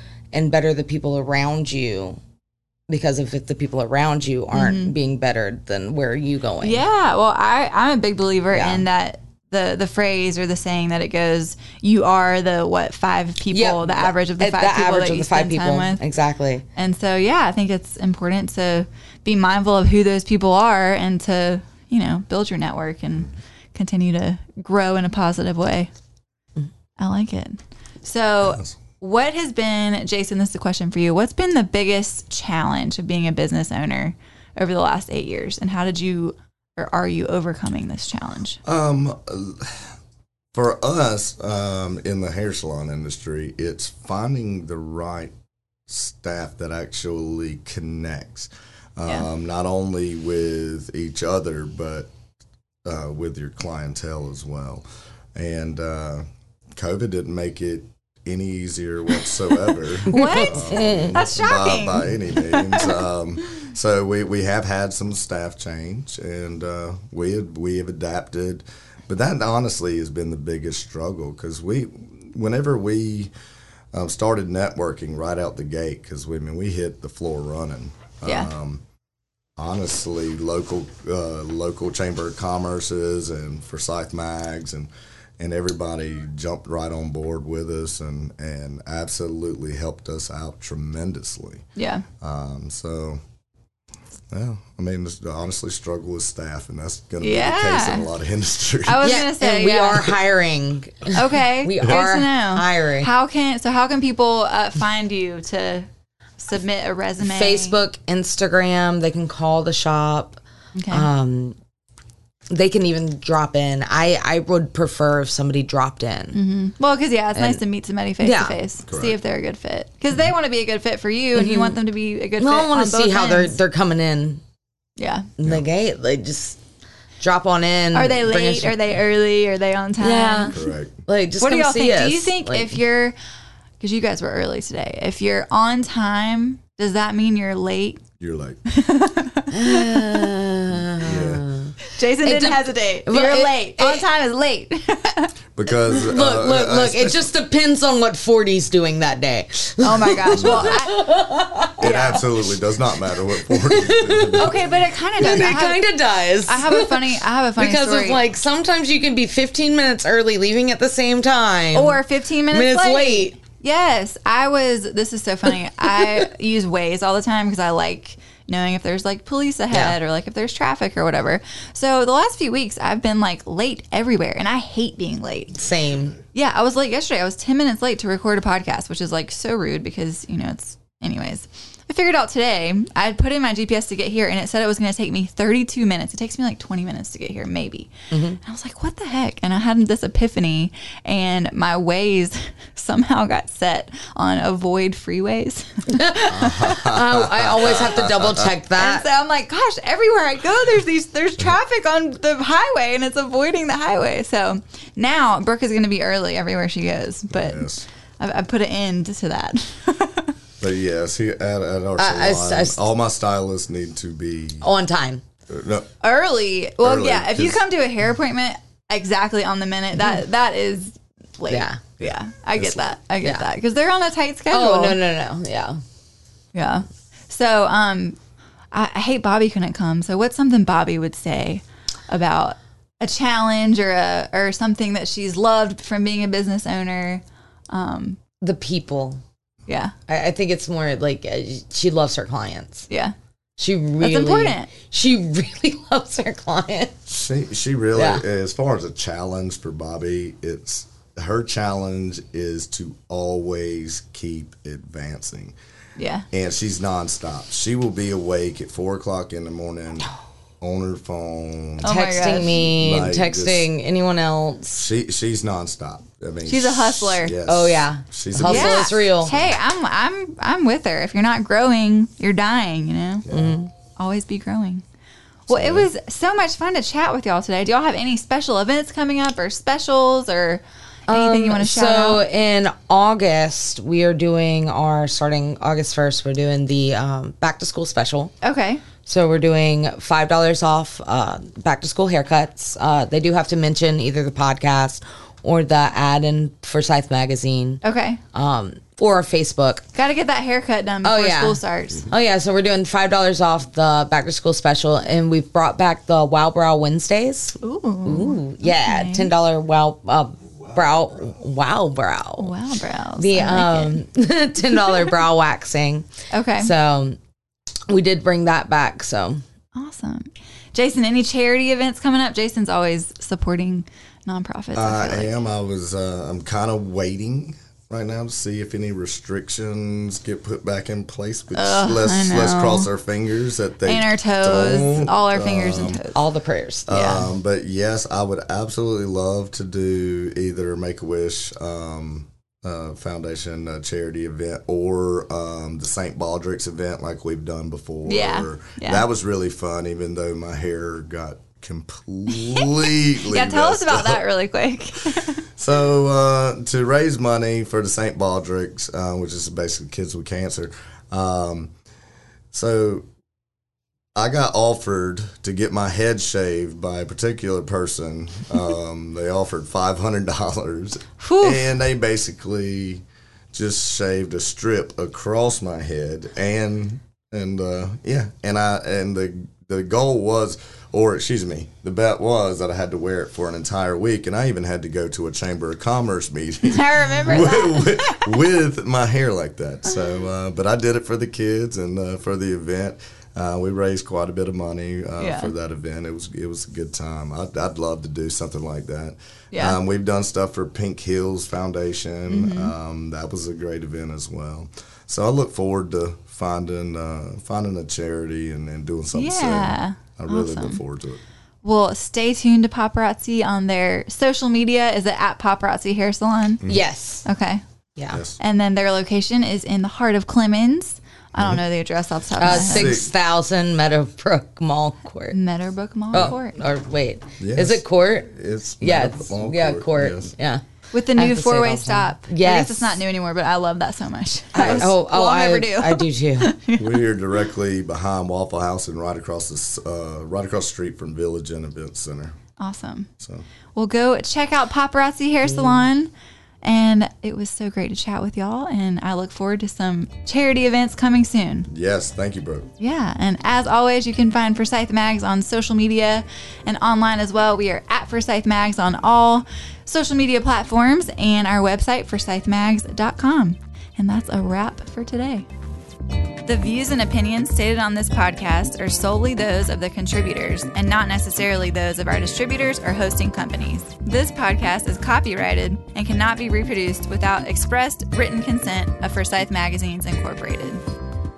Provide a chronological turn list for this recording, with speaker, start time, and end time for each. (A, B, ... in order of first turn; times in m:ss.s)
0:00.3-0:02.2 A
0:02.9-0:06.8 A
0:04.5-0:04.9 B
0:06.6-0:16.0 B
0:08.5-0:08.8 A
0:13.5-0:16.6 A
0:16.8-0:25.9 B
0:27.0-0:38.6 B
0:28.4-0:28.8 C
0:38.6-0:39.9 C
0:40.5-0:45.3 C
0:45.9-0:52.1 C
0:52.8-0:54.8 C
0:55.4-0:56.2 C
0:56.8-1:13.3 C
1:00.1-1:02.9 B
1:00.1-1:01.2 A
1:13.9-1:18.8 C
1:18.2-1:18.5 B
1:19.6-1:31.6 C
1:31.8-1:32.0 B
1:32.2-1:33.2 C
1:34.3-1:39.1 C
1:37.2-1:38.1 B
1:38.8-1:40.2 B
1:39.0-1:43.1 A
1:41.1-1:47.8 B
1:47.2-1:50.4 A
1:50.8-1:51.1 B
1:50.9-1:51.6 A
1:52.5-1:56.4 A
1:56.3-2:03.6 B
1:57.3-1:57.6 A
1:58.2-1:58.6 A
1:58.9-1:59.2 C
2:01.3-2:01.8 A
2:02.4-2:04.4 A
2:05.0-2:05.3 B
2:05.4-2:06.6 A
2:07.2-2:08.8 A
2:07.9-2:10.6 B
2:10.0-2:12.8 A
2:10.5-2:11.0 C
2:11.4-2:13.1 B
2:13.8-2:18.0 B
2:18.2-2:18.6 C
2:18.7-2:20.2 B
2:19.5-2:24.0 A
2:21.0-2:21.4 C
2:21.9-2:25.3 B
2:25.5-2:27.3 C
2:25.9-2:31.9 A
2:29.8-2:31.1 B
2:30.3-2:30.8 C
2:31.8-2:34.8 C
2:31.8-2:32.3 B
2:33.4-2:34.6 A
2:34.4-2:35.9 B
2:35.2-2:43.4 A
2:36.4-2:38.2 B
2:41.7-2:55.6 B
2:49.7-2:50.0 A
2:55.6-2:56.2 A
2:56.3-3:16.9 B
3:08.1-3:08.4 A
3:15.9-3:19.0 A
3:16.3-3:18.5 C
3:18.8-3:30.3 B
3:27.3-3:27.8 C
3:30.6-3:34.7 C
3:32.0-3:32.8 A
3:34.6-3:35.2 A
3:35.5-3:35.9 C
3:36.0-3:45.0 B
3:36.8-3:37.6 C
3:41.5-3:41.8 A
3:42.0-3:42.8 C
3:44.5-3:45.8 A
3:46.5-3:48.2 B
3:48.7-3:58.2 B
3:58.4-3:59.2 A
3:59.7-3:59.9 B
4:00.1-4:02.9 A
4:02.9-4:03.1 B
4:03.6-4:06.9 A
4:04.0-4:04.7 B
4:07.1-4:15.5 C
4:07.9-4:08.2 A
4:16.0-4:16.2 B
4:16.3-4:20.1 C
4:20.6-4:23.7 C
4:21.8-4:22.7 B
4:21.8-4:24.8 A
4:24.7-4:29.6 C
4:26.4-4:27.4 B
4:27.5-4:29.3 A
4:28.4-4:33.3 B
4:33.2-4:33.6 C
4:33.3-4:33.7 A
4:34.0-4:34.8 B
4:35.5-4:42.2 B
4:35.5-4:35.9 C
4:41.1-4:48.3 A
4:48.4-4:48.8 B
4:49.0-4:57.8 A
4:57.8-4:58.2 B
4:58.3-4:59.8 A
4:59.9-5:02.1 B
5:01.0-5:12.5 A
5:07.6-5:09.3 B
5:12.4-5:14.0 B
5:13.2-5:17.2 A
5:14.6-5:15.1 B
5:16.3-5:16.7 B
5:17.9-5:19.4 A
5:19.7-5:25.3 B
5:24.7-5:36.0 C
5:31.5-5:32.9 B
5:33.8-5:36.2 B
5:36.1-5:37.2 A
5:36.9-5:54.2 C
5:36.9-5:37.3 B
5:48.0-5:49.0 B
5:53.2-5:55.4 B
5:55.6-6:01.7 C
6:02.5-6:03.0 C
6:04.1-6:51.2 C
6:11.2-6:11.7 B
6:26.6-6:28.4 B
6:35.2-6:35.5 B
6:39.5-6:39.8 B
6:42.3-6:42.7 B
6:49.1-6:50.8 B
6:51.6-6:56.6 B
6:56.7-6:57.2 A
6:57.2-6:57.6 B
6:58.0-6:58.2 A
6:58.1-6:58.4 C
6:58.4-7:03.0 B
7:01.3-7:01.6 C
7:02.4-7:05.4 A
7:02.4-7:03.1 C
7:05.3-7:06.6 B
7:06.1-7:10.6 A
7:07.4-7:10.3 C
7:10.9-7:17.0 B
7:11.1-7:13.0 A
7:14.5-7:16.5 A
7:14.6-7:14.9 C
7:16.8-7:22.3 C
7:22.6-7:23.1 B
7:23.2-7:23.4 C
7:23.7-7:31.7 B
7:25.4-7:25.9 A
7:31.7-7:32.7 C
7:32.8-7:45.4 B
7:46.4-8:00.8 B